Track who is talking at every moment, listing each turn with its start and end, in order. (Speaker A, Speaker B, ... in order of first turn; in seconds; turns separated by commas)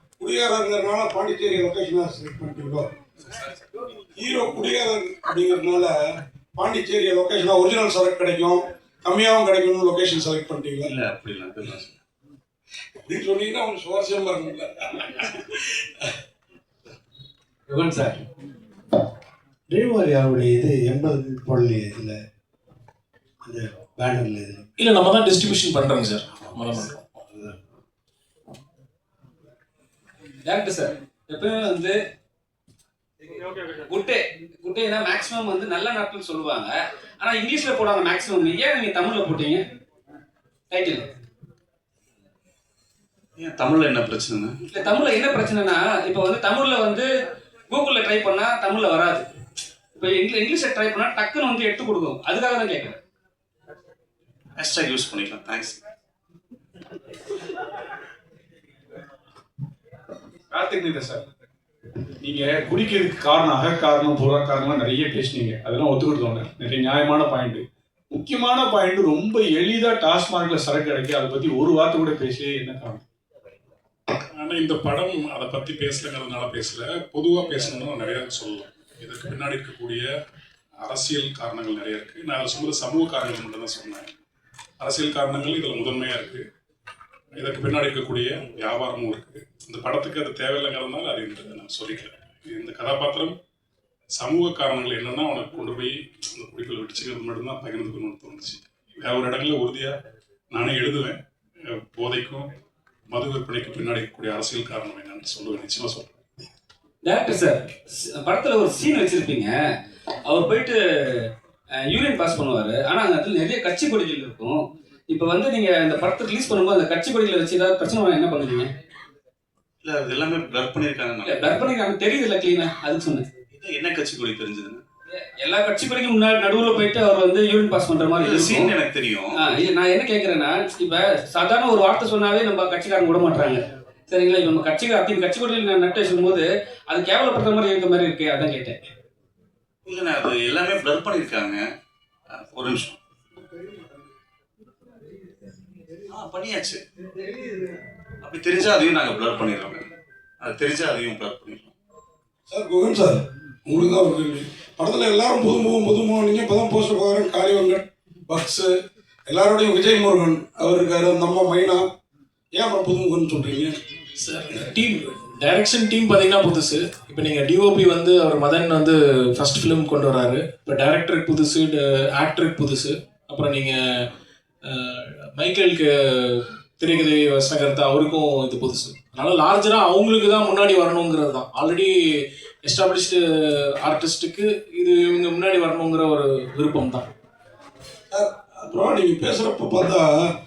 Speaker A: 0.2-2.9, Speaker A: 4.2-5.9, Speaker A: 6.5-10.9, Speaker B: 10.8-11.9, Speaker A: 13.0-15.3, Speaker C: 17.7-18.1, Speaker C: 19.7-22.2, Speaker C: 23.4-24.7, Speaker D: 24.8-26.9, Speaker E: 30.4-31.9, Speaker E: 33.9-39.6, Speaker E: 40.7-41.1, Speaker B: 43.4-44.5, Speaker E: 44.7-47.1, Speaker E: 47.7-49.2, Speaker E: 50.0-53.0, Speaker B: 54.6-55.8, Speaker F: 60.5-61.2, Speaker F: 62.2-73.0, Speaker G: 74.3-80.0, Speaker G: 80.8-84.1, Speaker G: 84.8-86.4, Speaker G: 87.3-93.3, Speaker G: 94.1-99.9, Speaker G: 100.5-101.2, Speaker G: 101.9-102.4, Speaker G: 103.1-106.2, Speaker E: 107.0-109.5, Speaker E: 110.2-110.8, Speaker E: 111.8-114.6, Speaker E: 115.1-118.7, Speaker B: 119.8-121.7, Speaker E: 121.2-123.2, Speaker B: 123.5-124.8, Speaker E: 125.3-128.7, Speaker B: 128.2-129.4, Speaker E: 129.3-138.8, Speaker B: 139.8-141.6, Speaker B: 142.3-143.0, Speaker B: 146.1-146.8, Speaker B: 148.2-149.8, Speaker B: 150.4-151.7, Speaker A: 152.5-158.7, Speaker A: 159.3-161.8, Speaker A: 162.5-163.8, Speaker D: 164.2-174.0, Speaker D: 174.7-182.0, Speaker D: 182.6-187.1, Speaker A: 188.1-190.1